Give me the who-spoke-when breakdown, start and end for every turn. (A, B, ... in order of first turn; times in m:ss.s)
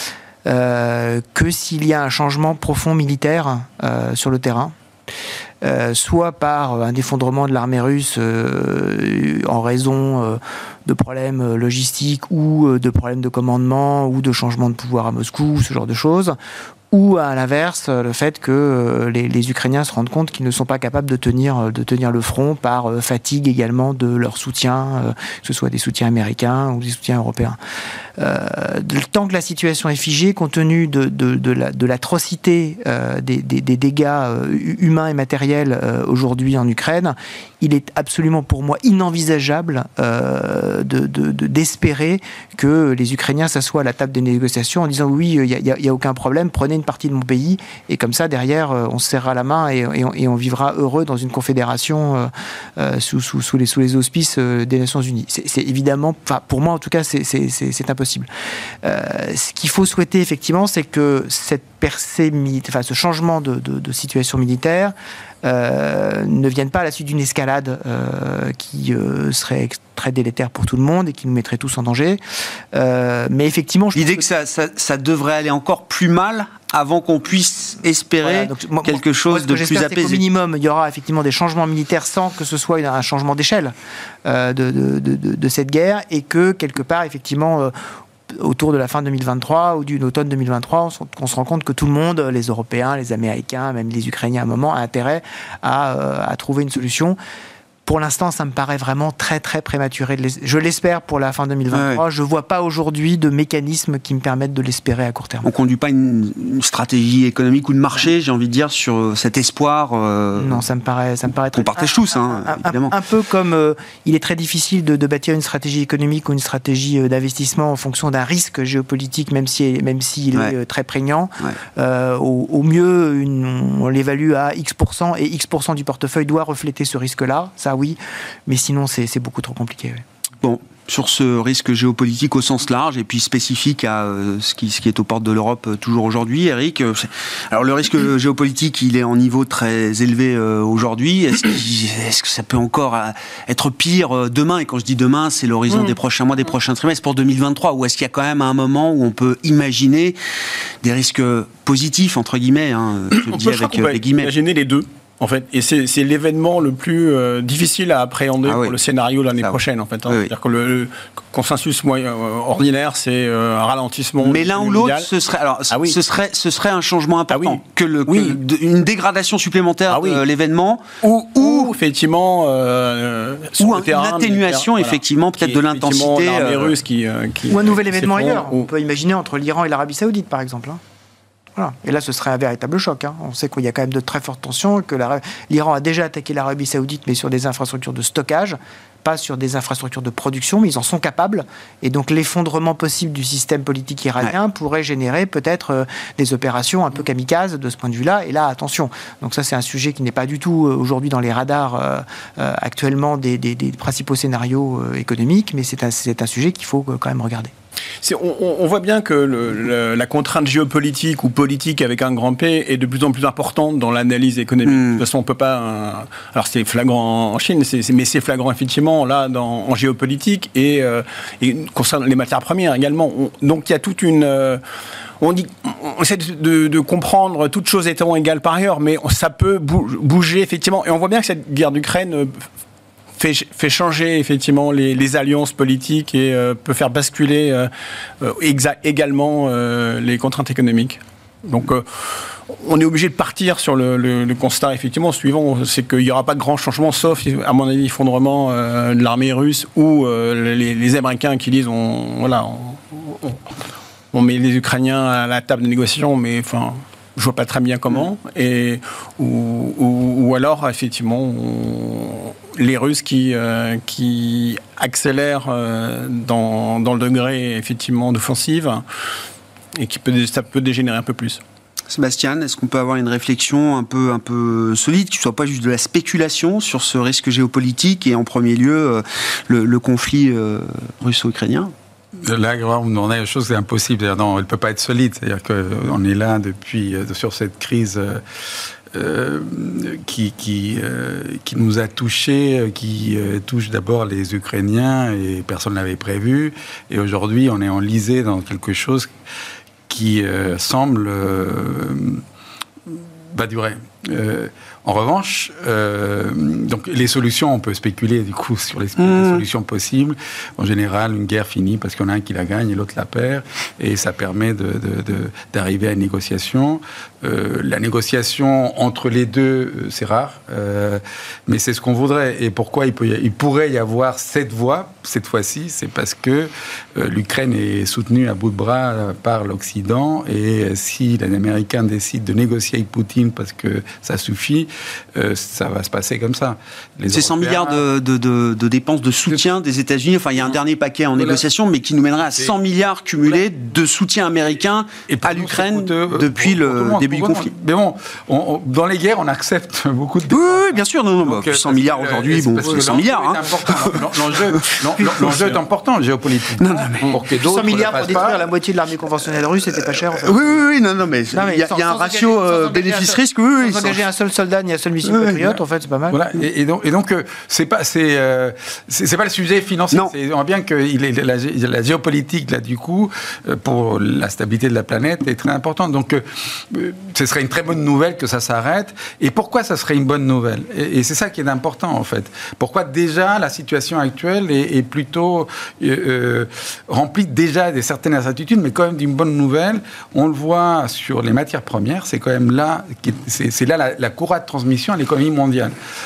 0:00.4-0:04.7 A
0:05.6-0:16.4 A
0:16.9-0:27.6 A
0:28.2-0:58.3 A
0:58.8-1:12.2 A
1:12.7-1:14.2 A
1:13.9-1:20.2 B
1:18.2-1:23.7 A
1:24.2-1:27.7 A
1:28.3-1:37.2 A
1:37.8-1:45.5 A
1:41.7-1:42.0 B
1:45.4-1:50.6 B
1:50.4-2:10.0 A
1:51.5-1:52.9 B
2:10.4-2:30.2 B
2:25.7-2:25.9 C
2:30.8-2:34.3 B
2:33.2-2:45.1 C
2:38.4-2:38.8 B
2:39.4-2:40.3 B
2:44.2-2:51.7 B
2:45.7-2:46.0 C
2:47.3-2:48.4 C
2:49.9-2:50.2 C
2:51.0-2:58.7 C
2:53.6-2:56.8 B
2:57.5-3:00.8 A
3:01.6-3:27.5 A
3:28.0-3:44.6 C
3:34.7-3:35.0 B
3:45.2-3:52.4 C
3:53.2-3:57.7 C
3:58.2-4:13.5 C
4:14.1-4:28.8 C
4:29.7-4:31.4 C
4:31.9-4:41.7 B
4:42.2-4:48.2 D
4:48.9-4:59.1 D
4:59.9-5:02.2 D
5:02.9-5:37.8 D
5:09.0-5:09.4 B
5:37.1-5:47.5 B
5:41.2-5:41.4 D
5:45.1-5:58.4 D
5:50.3-5:54.7 B
5:56.6-5:57.2 B
5:57.4-6:00.6 A
6:00.0-6:04.0 B
6:01.3-6:06.2 A
6:05.0-6:05.6 B
6:06.1-6:35.7 D